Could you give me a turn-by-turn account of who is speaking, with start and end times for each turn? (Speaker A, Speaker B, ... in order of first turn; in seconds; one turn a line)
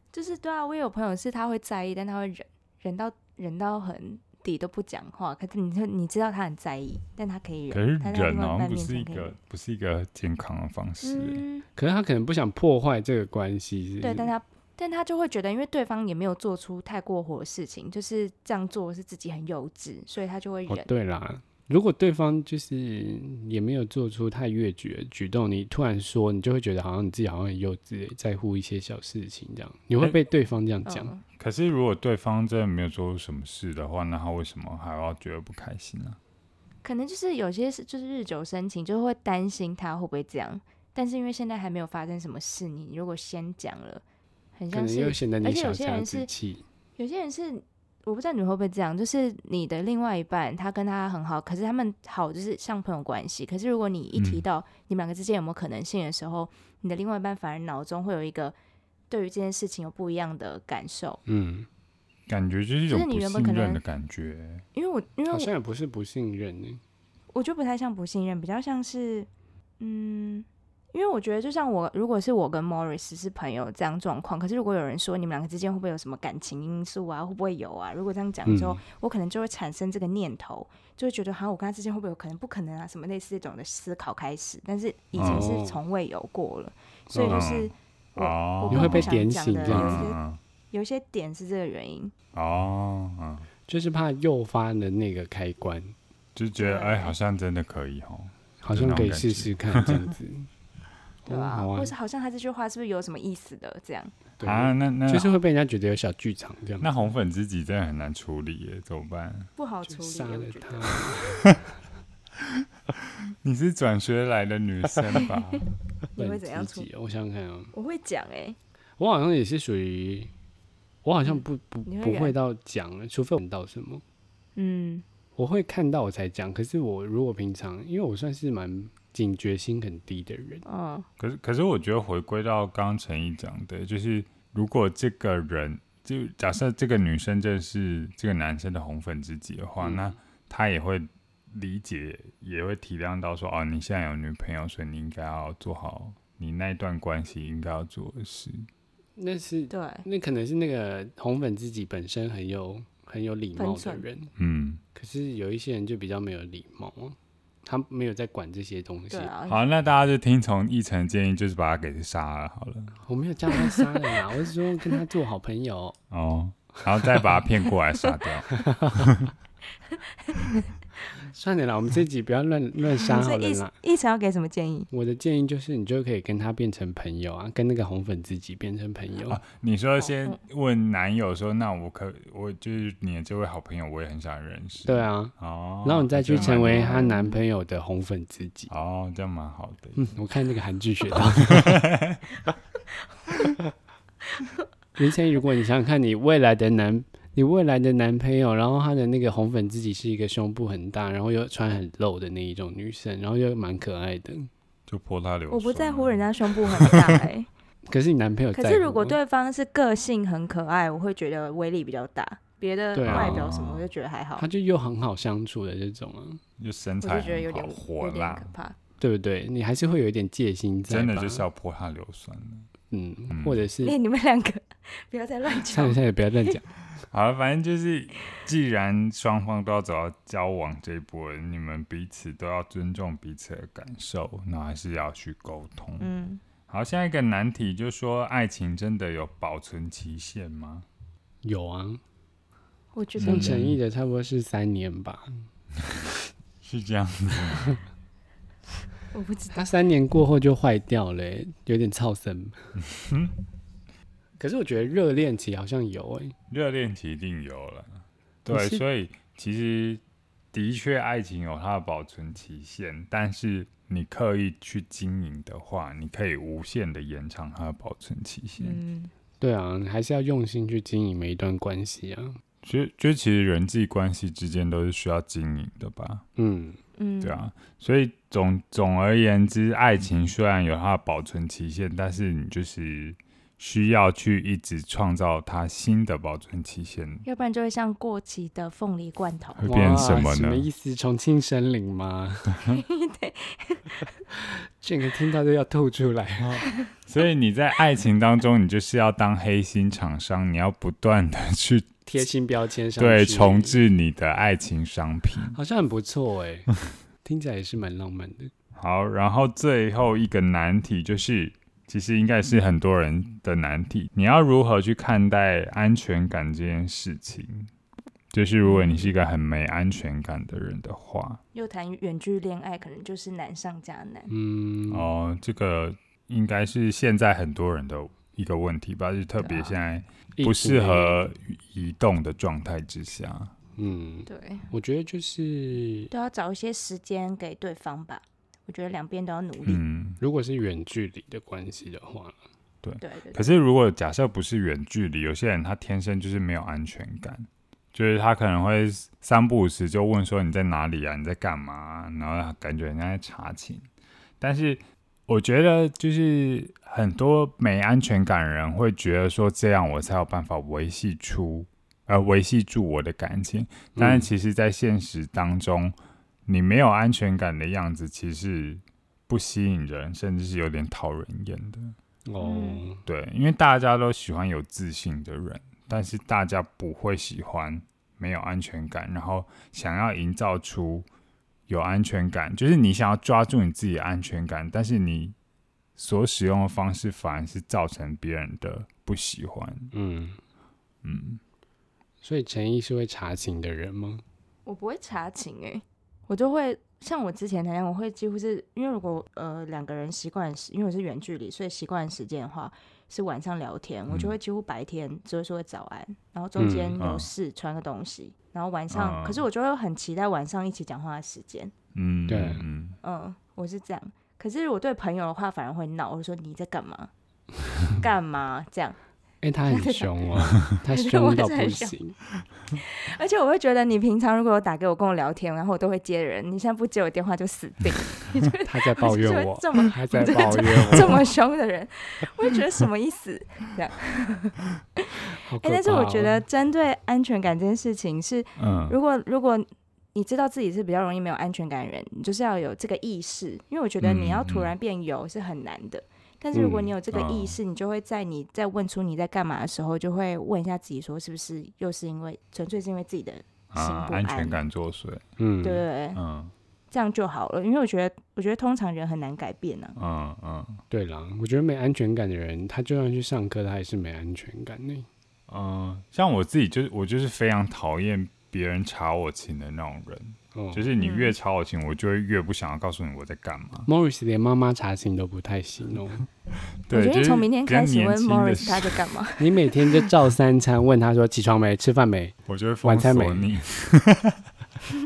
Speaker A: 0.1-9.3
Speaker B: 7.7-11.4
Speaker A: 11.0-11.7
Speaker C: 11.8-14.3
Speaker A: 14.0-20.9
Speaker C: 20.7-31.1
Speaker A: 30.9-31.2
Speaker B: 31.4-36.2
Speaker A: 36.8-44.0
Speaker A: 44.5-46.3
Speaker C: 44.7-46.6
Speaker A: 47.0-58.5
Speaker B: 54.1-54.4
Speaker A: 59.1-61.2
Speaker C: 61.2-61.7
Speaker B: 62.3-64.6
Speaker A: 62.9-63.8
Speaker A: 64.7-65.5
Speaker C: 65.3-66.8
Speaker A: 67.3-69.3
Speaker A: 69.8-90.2
Speaker C: 78.5-78.8
Speaker B: 85.2-85.5
Speaker C: 85.2-85.8
Speaker C: 87.1-87.4
Speaker B: 87.3-90.4
Speaker C: 88.7-90.1
Speaker A: 90.7-92.1
Speaker B: 92.3-93.5
Speaker C: 93.7-96.0
Speaker B: 96.3-100.0
Speaker A: 96.6-97.1
Speaker C: 98.6-100.5
Speaker C: 101.2-101.9
Speaker A: 101.3-104.1
Speaker C: 104.4-106.9
Speaker B: 104.4-105.3
Speaker B: 106.8-109.5
Speaker A: 109.6-111.2
Speaker C: 109.8-111.7
Speaker B: 112.4-115.6
Speaker A: 116.2-116.9
Speaker C: 116.2-117.7
Speaker A: 117.7-118.6
Speaker C: 119.0-120.3
Speaker C: 121.0-124.0
Speaker A: 121.2-122.3
Speaker A: 124.5-125.0
Speaker C: 125.4-130.6
Speaker A: 130.7-131.1
Speaker B: 131.2-148.7
Speaker C: 139.8-140.1
Speaker C: 149.2-154.3
Speaker A: 149.7-150.1
Speaker A: 153.6-154.0
Speaker B: 154.4-154.8
Speaker C: 154.9-159.3
Speaker A: 159.1-159.6
Speaker B: 159.5-163.0
Speaker C: 163.0-166.0
Speaker B: 166.1-169.3
Speaker C: 168.5-169.1
Speaker A: 169.9-170.7
Speaker C: 171.2-173.7
Speaker A: 173.0-174.9
Speaker C: 174.9-179.4
Speaker B: 179.3-187.0
Speaker A: 180.0-180.4
Speaker C: 184.8-188.7
Speaker A: 186.4-187.4
Speaker B: 188.7-190.1
Speaker C: 189.9-191.8
Speaker B: 191.2-192.2
Speaker C: 194.9-204.5
Speaker B: 204.9-207.2
Speaker A: 205.5-207.5
Speaker C: 207.9-209.2
Speaker A: 208.5-214.5
Speaker C: 212.9-213.5
Speaker B: 213.1-213.9
Speaker C: 214.4-216.4
Speaker B: 216.6-218.5
Speaker A: 217.0-218.8
Speaker C: 219.0-221.4
Speaker B: 220.9-222.7
Speaker C: 222.9-223.9
Speaker B: 223.3-223.7
Speaker A: 223.8-226.5
Speaker C: 225.6-226.6
Speaker B: 227.0-236.1
Speaker A: 236.0-236.4
Speaker B: 236.7-240.9
Speaker C: 241.4-242.0
Speaker A: 242.9-243.6
Speaker B: 243.2-243.8
Speaker C: 243.2-245.4
Speaker B: 246.6-247.8
Speaker A: 249.1-249.7
Speaker C: 249.5-252.6
Speaker B: 252.8-253.3
Speaker C: 254.4-256.3
Speaker B: 256.5-260.0
Speaker C: 258.5-258.8
Speaker B: 260.5-268.8
Speaker A: 268.6-269.1
Speaker C: 269.4-272.4
Speaker B: 272.6-276.2
Speaker C: 276.4-276.8
Speaker A: 277.0-277.4
Speaker B: 277.2-287.2
Speaker A: 287.2-290.0
Speaker B: 289.6-290.7
Speaker C: 289.6-292.6
Speaker A: 292.7-294.0
Speaker C: 294.3-296.6
Speaker B: 296.4-302.2
Speaker C: 302.1-303.8
Speaker B: 303.0-305.6
Speaker C: 305.5-306.7
Speaker C: 307.2-308.5
Speaker B: 308.8-317.7
Speaker B: 318.3-321.4
Speaker A: 318.6-319.1
Speaker A: 321.5-324.3
Speaker C: 324.3-325.1
Speaker B: 324.9-333.5
Speaker A: 329.4-329.8
Speaker C: 330.4-331.3
Speaker C: 333.8-336.1
Speaker A: 334.3-334.7
Speaker A: 336.1-339.8
Speaker B: 339.6-340.2
Speaker C: 340.2-342.4
Speaker B: 342.8-353.9
Speaker A: 343.0-343.5
Speaker B: 354.4-365.9
Speaker C: 363.9-364.3
Speaker B: 366.4-371.9
Speaker C: 372.3-373.0
Speaker A: 372.4-372.8
Speaker B: 373.0-381.1
Speaker B: 381.7-385.3
Speaker B: 385.9-389.9
Speaker C: 389.9-390.4
Speaker B: 391.0-391.4
Speaker C: 392.2-394.2
Speaker A: 394.6-411.7
Speaker B: 404.1-404.3
Speaker C: 406.6-407.0
Speaker B: 406.9-407.3
Speaker B: 408.9-409.4
Speaker B: 411.9-413.0
Speaker C: 412.3-412.6
Speaker A: 413.0-417.1
Speaker A: 417.9-419.0
Speaker C: 419.4-422.2
Speaker A: 419.7-422.0
Speaker A: 422.7-454.6
Speaker C: 428.7-431.2
Speaker C: 435.4-436.4
Speaker B: 438.6-438.9
Speaker B: 444.0-444.7
Speaker C: 446.5-446.9
Speaker B: 447.1-447.6
Speaker B: 453.7-455.2
Speaker C: 455.4-455.8
Speaker A: 455.6-456.2
Speaker B: 456.1-456.5
Speaker A: 456.9-460.0
Speaker B: 460.0-460.8
Speaker C: 460.9-465.1
Speaker B: 465.5-473.9
Speaker C: 470.5-470.9
Speaker A: 471.0-471.3
Speaker C: 473.9-476.3
Speaker B: 476.9-479.0
Speaker A: 476.9-480.1
Speaker C: 479.4-483.4
Speaker B: 482.5-484.4